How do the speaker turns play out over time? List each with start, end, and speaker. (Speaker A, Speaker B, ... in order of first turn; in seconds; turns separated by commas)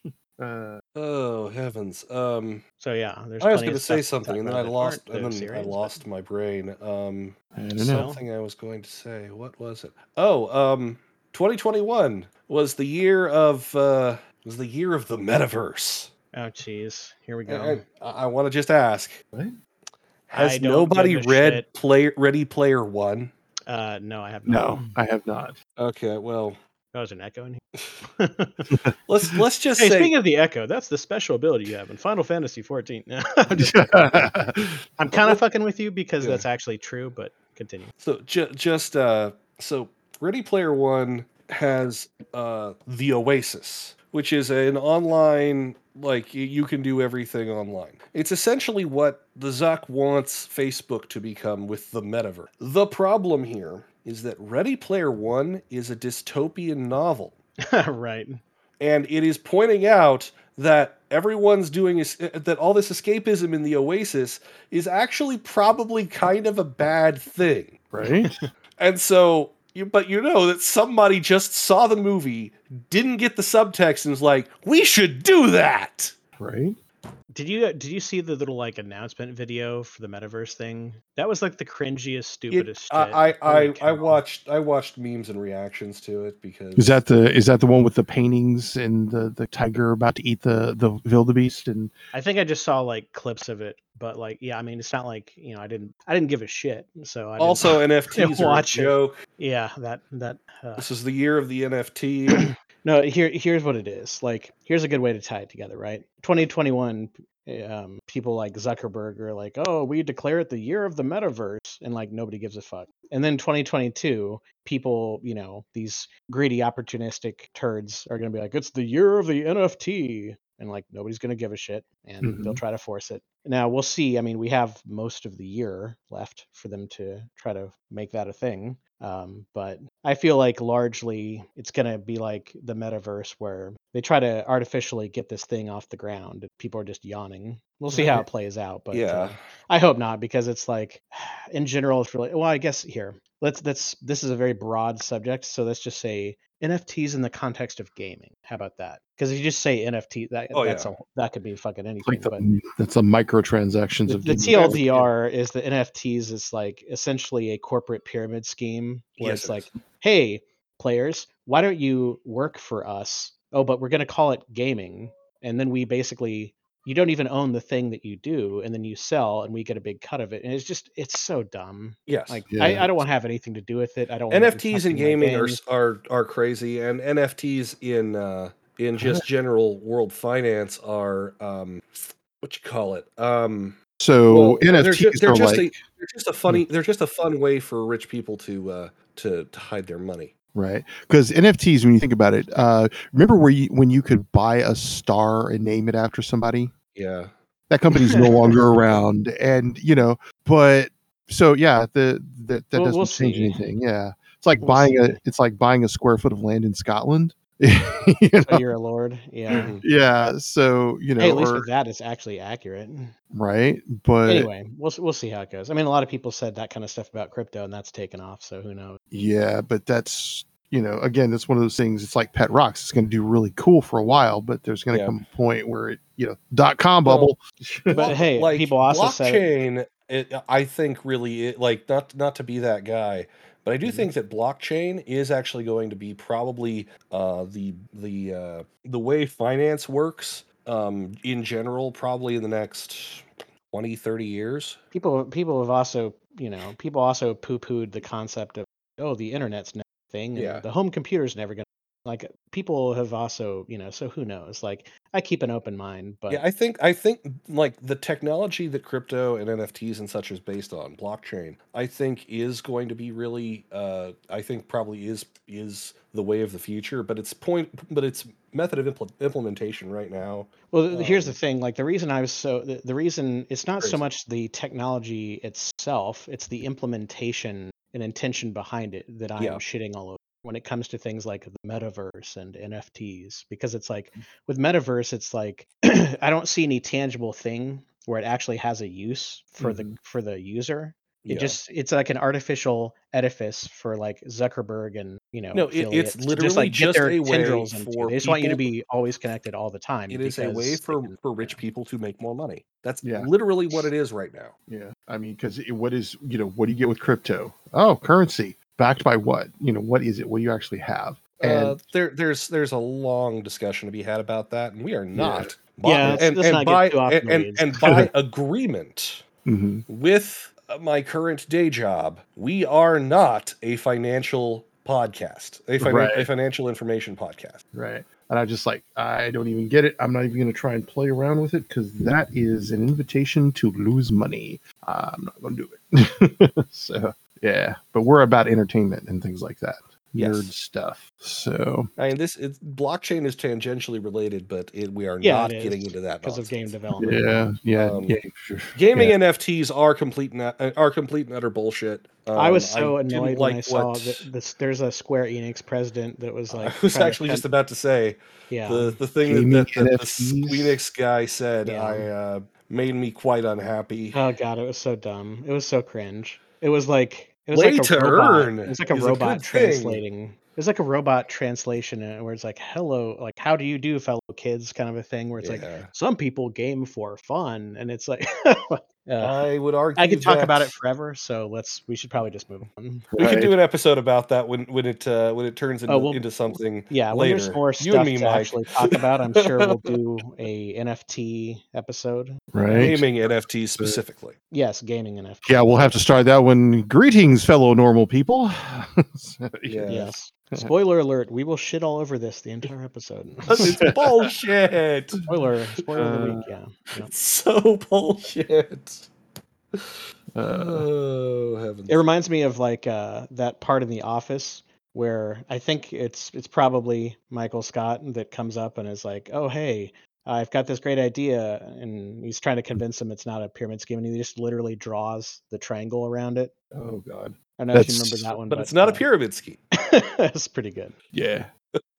Speaker A: 0.4-0.8, Speaker B: 0.9-2.6, Speaker C: 2.8-6.0, Speaker B: 3.4-16.1, Speaker A: 7.5-8.1, Speaker C: 7.9-8.2, Speaker C: 16.3-17.8, Speaker B: 17.5-19.2, Speaker B: 20.3-23.3, Speaker C: 20.3-21.6, Speaker C: 23.7-24.9, Speaker A: 24.5-25.6, Speaker B: 25.8-26.6, Speaker C: 26.9-28.7, Speaker B: 29.1-30.1, Speaker C: 29.8-34.3, Speaker A: 33.5-34.8, Speaker C: 35.0-37.9, Speaker B: 36.2-36.5, Speaker B: 38.0-57.4, Speaker C: 57.6-58.4, Speaker B: 58.8-67.8, Speaker A: 67.9-68.4, Speaker C: 68.0-68.4, Speaker B: 68.8-76.2, Speaker A: 76.4-76.8, Speaker C: 77.3-84.2, Speaker B: 82.5-87.0, Speaker A: 86.8-91.9, Speaker C: 92.1-100.9, Speaker B: 97.4-99.2, Speaker B: 100.8-102.5, Speaker C: 102.3-152.4, Speaker A: 122.2-122.6, Speaker B: 137.9-138.2, Speaker B: 138.9-139.4, Speaker B: 150.5-150.9, Speaker A: 152.0-155.1, Speaker C: 154.1-175.6, Speaker B: 154.5-155.0, Speaker B: 159.2-159.7, Speaker B: 172.1-172.4, Speaker A: 172.5-172.9, Speaker B: 174.3-190.3, Speaker A: 179.0-179.2, Speaker A: 184.0-185.7, Speaker A: 190.5-196.7, Speaker B: 196.9-197.3, Speaker A: 197.7-208.6, Speaker C: 198.1-198.5, Speaker C: 202.8-203.6, Speaker C: 204.6-205.2, Speaker C: 208.4-209.8, Speaker B: 209.5-209.8, Speaker A: 209.5-211.7, Speaker C: 211.2-213.1, Speaker A: 213.3-214.5, Speaker C: 214.3-219.0, Speaker A: 219.1-228.1, Speaker B: 224.9-225.2, Speaker B: 227.1-244.8, Speaker C: 227.9-229.5, Speaker A: 233.8-234.1, Speaker C: 244.9-256.4, Speaker B: 250.4-250.7, Speaker B: 256.3-271.4, Speaker C: 270.7-301.6, Speaker A: 289.6-289.9, Speaker B: 291.3-291.6, Speaker B: 295.5-298.6, Speaker B: 300.1-304.5, Speaker A: 303.0-303.9, Speaker A: 304.7-311.8, Speaker B: 311.4-319.2, Speaker A: 315.1-316.2, Speaker C: 315.8-317.9, Speaker A: 317.8-318.1, Speaker A: 319.4-319.9, Speaker B: 319.9-327.6, Speaker A: 325.8-326.3, Speaker A: 327.7-341.9, Speaker B: 340.2-340.5, Speaker B: 342.0-346.7, Speaker C: 345.2-347.4, Speaker A: 347.0-349.1, Speaker B: 347.8-348.2, Speaker B: 348.8-354.2, Speaker C: 352.4-357.4, Speaker B: 356.5-364.2, Speaker C: 358.5-359.0, Speaker A: 359.2-360.8, Speaker C: 361.6-362.1, Speaker C: 364.1-379.4, Speaker B: 367.5-370.0, Speaker B: 375.4-375.9, Speaker B: 379.2-380.7, Speaker C: 380.0-383.1, Speaker A: 383.1-383.5, Speaker B: 383.2-389.9, Speaker C: 385.9-386.3, Speaker C: 386.8-392.4, Speaker A: 392.5-393.0, Speaker B: 392.7-394.4, Speaker C: 394.5-396.0, Speaker A: 395.5-399.9, Speaker B: 399.7-400.1, Speaker C: 399.9-403.8, Speaker B: 403.5-405.2, Speaker A: 403.6-404.3, Speaker C: 405.3-407.1, Speaker A: 406.0-406.5, Speaker B: 407.0-409.1, Speaker B: 409.7-411.9, Speaker A: 410.4-410.9, Speaker C: 411.9-426.5, Speaker A: 426.7-428.3, Speaker C: 427.6-429.0, Speaker B: 428.5-429.6, Speaker C: 429.7-430.9, Speaker A: 431.1-431.5